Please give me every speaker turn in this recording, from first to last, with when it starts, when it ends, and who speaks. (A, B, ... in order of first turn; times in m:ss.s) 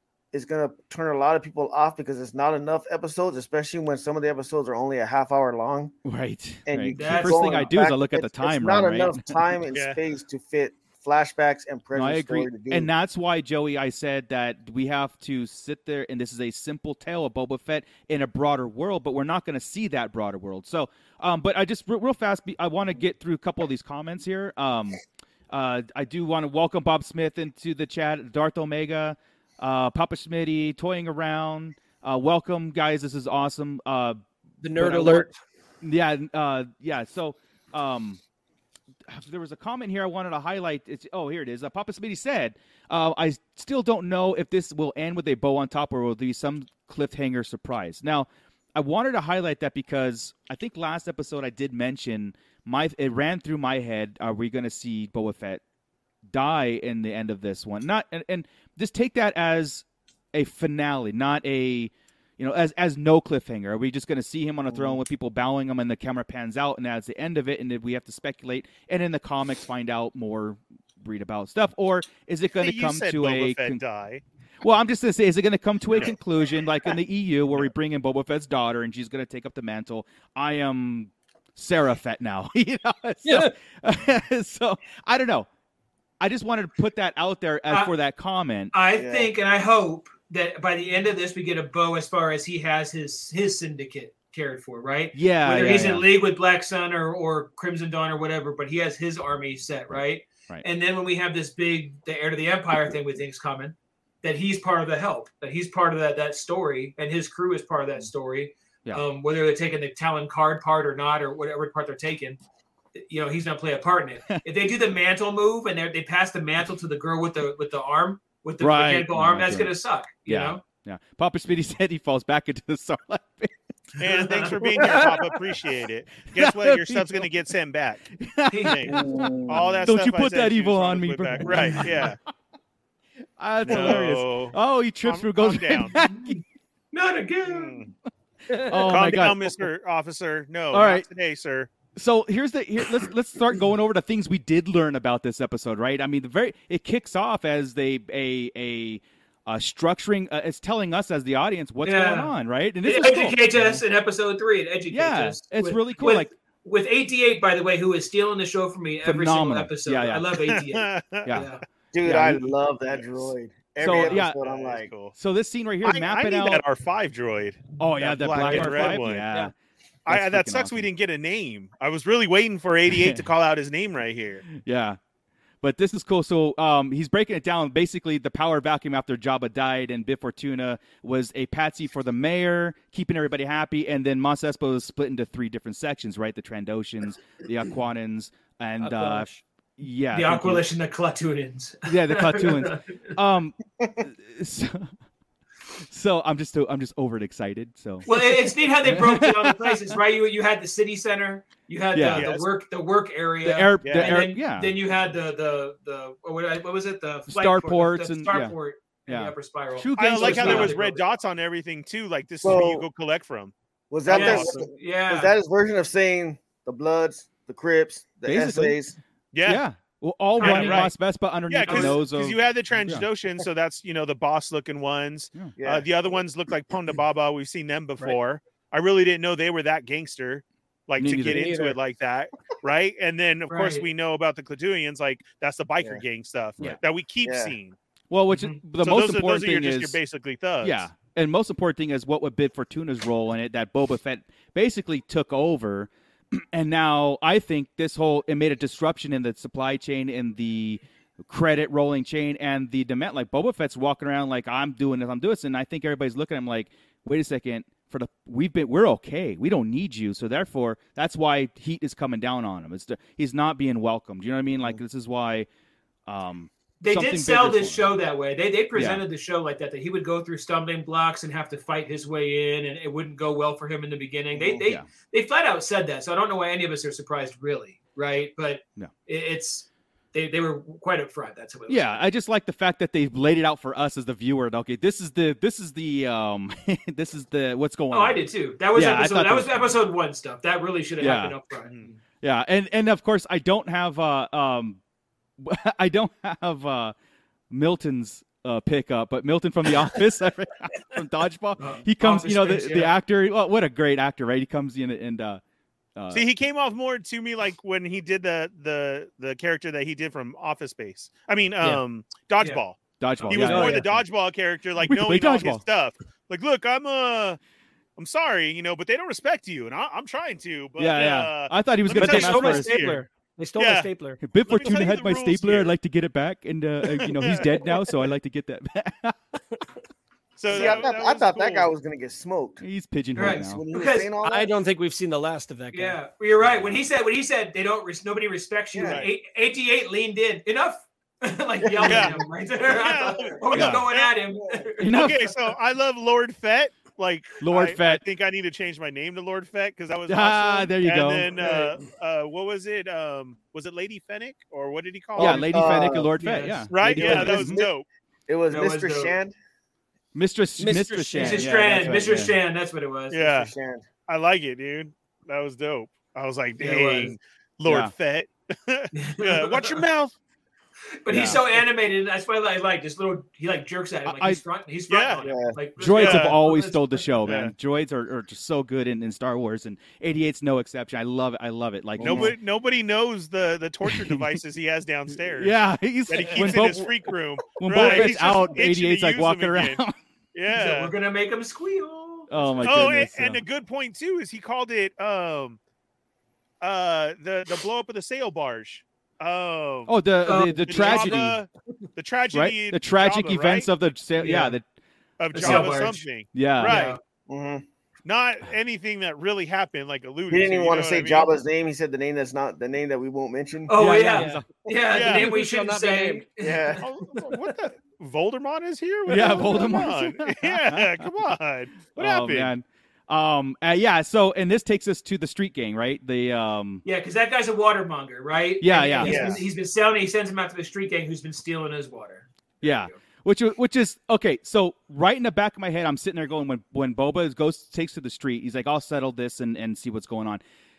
0:00.3-0:05.9 A
0:06.0-0:09.4 B
0:06.7-0:12.9 A
0:06.9-0:07.7 C
0:09.7-0:10.0 D
0:11.9-0:34.2 B
0:34.6-0:35.4 E
0:34.8-0:35.3 B
0:35.8-0:38.2 B
0:39.1-0:55.6 B
0:56.3-1:13.8 B
1:04.7-1:05.0 A
1:12.6-1:14.2 D
1:14.6-1:25.5 B
1:23.2-1:23.5 E
1:26.2-1:28.7 B
1:28.7-1:52.4 C
1:29.0-1:29.3 A
1:35.1-1:36.1 B
1:39.9-1:40.6 B
1:52.9-2:00.6 C
1:58.6-1:59.7 B
2:00.2-2:03.5 B
2:04.0-2:08.0 D
2:06.3-2:07.3 B
2:08.2-2:12.2 B
2:08.5-2:08.9 C
2:08.6-2:12.2 D
2:08.9-2:09.9 A
2:13.4-2:16.4 B
2:13.6-2:15.9 D
2:16.0-2:16.4 C
2:16.9-2:17.8 C
2:17.4-2:17.9 D
2:18.5-2:19.6 B
2:18.9-2:21.7 D
2:20.7-2:21.1 B
2:21.9-2:33.8 B
2:31.8-2:32.3 C
2:32.8-2:41.6 C
2:34.9-2:36.3 B
2:39.0-2:40.3 B
2:40.6-2:41.5 D
2:41.9-2:44.9 A
2:42.0-2:42.5 B
2:42.9-2:43.2 D
2:43.8-2:44.4 B
2:43.9-2:45.1 D
2:45.1-2:46.6 B
2:45.8-2:49.3 D
2:47.8-2:49.5 B
2:48.5-2:48.9 C
2:50.0-2:54.4 D
2:50.1-2:50.9 B
2:52.9-2:53.3 B
2:54.5-2:55.0 B
2:55.6-3:10.6 B
3:08.8-3:09.4 E
3:10.1-3:13.1 C
3:11.9-3:14.9 B
3:15.8-3:20.0 B
3:18.0-3:31.0 C
3:21.9-3:22.3 B
3:22.1-3:22.5 D
3:23.4-3:24.8 B
3:23.8-3:24.2 D
3:27.3-3:28.6 B
3:29.1-3:30.7 B
3:29.9-3:33.5 D
3:32.4-3:32.9 A
3:33.9-3:39.0 A
3:34.0-3:34.6 D
3:34.1-3:35.3 C
3:38.2-3:38.8 B
3:39.3-3:39.6 D
3:39.4-3:43.0 B
3:40.4-3:40.9 C
3:40.4-3:40.9 D
3:41.5-3:57.8 D
3:41.7-3:42.0 C
3:45.6-3:46.2 A
3:51.0-3:51.6 B
3:51.3-3:51.8 E
3:53.5-3:53.9 C
3:57.2-3:57.6 A
3:58.1-4:00.0 B
3:58.3-3:58.6 C
3:58.8-4:00.9 D
4:00.6-4:25.5 B
4:26.1-4:28.0 B
4:26.8-4:42.0 C
4:28.7-4:29.0 B
4:34.3-4:34.6 A
4:34.6-4:34.9 B
4:41.7-4:49.8 B
4:47.9-4:52.0 C
4:51.0-4:51.4 B
4:52.2-4:54.8 B
4:55.4-4:56.9 B
4:57.5-5:05.4 B
5:01.6-5:02.9 C
5:06.0-5:06.2 B
5:06.1-5:17.4 D
5:13.0-5:14.0 B
5:13.3-5:13.8 E
5:14.8-5:15.6 B
5:18.0-5:23.0 D
5:20.8-5:23.0 B
5:22.0-5:24.2 E
5:23.6-5:23.9 D
5:24.2-5:29.4 B
5:24.4-5:25.7 D
5:26.9-5:27.5 D
5:30.4-5:31.7 D
5:30.5-5:32.6 A
5:32.6-5:33.6 B
5:33.2-5:34.1 C
5:33.2-5:34.5 A
5:34.2-5:36.0 E
5:35.7-5:44.9 C
5:36.4-5:36.8 B
5:38.7-5:39.0 A
5:38.8-5:39.1 D
5:41.6-5:42.2 A
5:41.8-5:44.2 D
5:43.5-5:43.9 B
5:44.8-5:45.3 B
5:44.8-5:55.6 D
5:47.4-5:48.0 B
5:50.1-5:51.3 B
5:55.2-5:56.1 A
5:55.2-5:57.6 B
5:56.2-5:56.7 C
5:56.7-5:57.9 D
5:56.8-5:57.7 A
5:58.3-5:59.3 A
5:58.5-5:59.1 C
6:00.1-6:02.4 B
6:00.6-6:02.0 E
6:01.1-6:03.2 C
6:03.1-6:03.5 D
6:03.2-6:03.9 A
6:04.1-6:10.1 D
6:06.6-6:07.2 C
6:07.6-6:07.9 B
6:08.9-6:09.8 C
6:11.0-6:17.0 C
6:11.1-6:11.4 B
6:14.0-6:14.4 B
6:14.9-6:15.3 D
6:15.2-6:15.6 A
6:15.8-6:22.4 B
6:15.9-6:16.4 D
6:17.2-6:17.5 D
6:22.0-6:22.4 A
6:22.0-6:25.6 D
6:23.8-6:24.4 B
6:25.1-6:27.0 B
6:26.1-6:29.8 D
6:27.5-6:29.9 B
6:27.8-6:28.1 C
6:30.3-6:30.9 D
6:30.5-6:32.9 C
6:32.3-6:33.4 B
6:32.6-6:35.6 D
6:36.6-6:43.7 D
6:39.9-6:41.4 B
6:40.2-6:41.2 C
6:42.3-6:44.6 B
6:44.2-6:44.5 C
6:45.2-6:47.0 D
6:45.3-6:46.0 C
6:45.4-6:45.7 B
6:46.3-6:46.8 B
6:46.6-6:47.0 C
6:47.3-6:47.6 A
6:48.0-6:51.4 D
6:50.3-6:53.7 A
6:53.7-6:56.8 C
6:53.7-6:54.5 B
6:54.2-6:56.2 E
6:54.9-6:55.4 D
6:56.4-6:56.9 A
6:56.8-7:02.5 D
6:59.0-7:01.0 B
7:01.9-7:06.8 B
7:06.8-7:13.0 C
7:08.6-7:09.4 B
7:09.0-7:09.5 A
7:12.6-7:20.4 B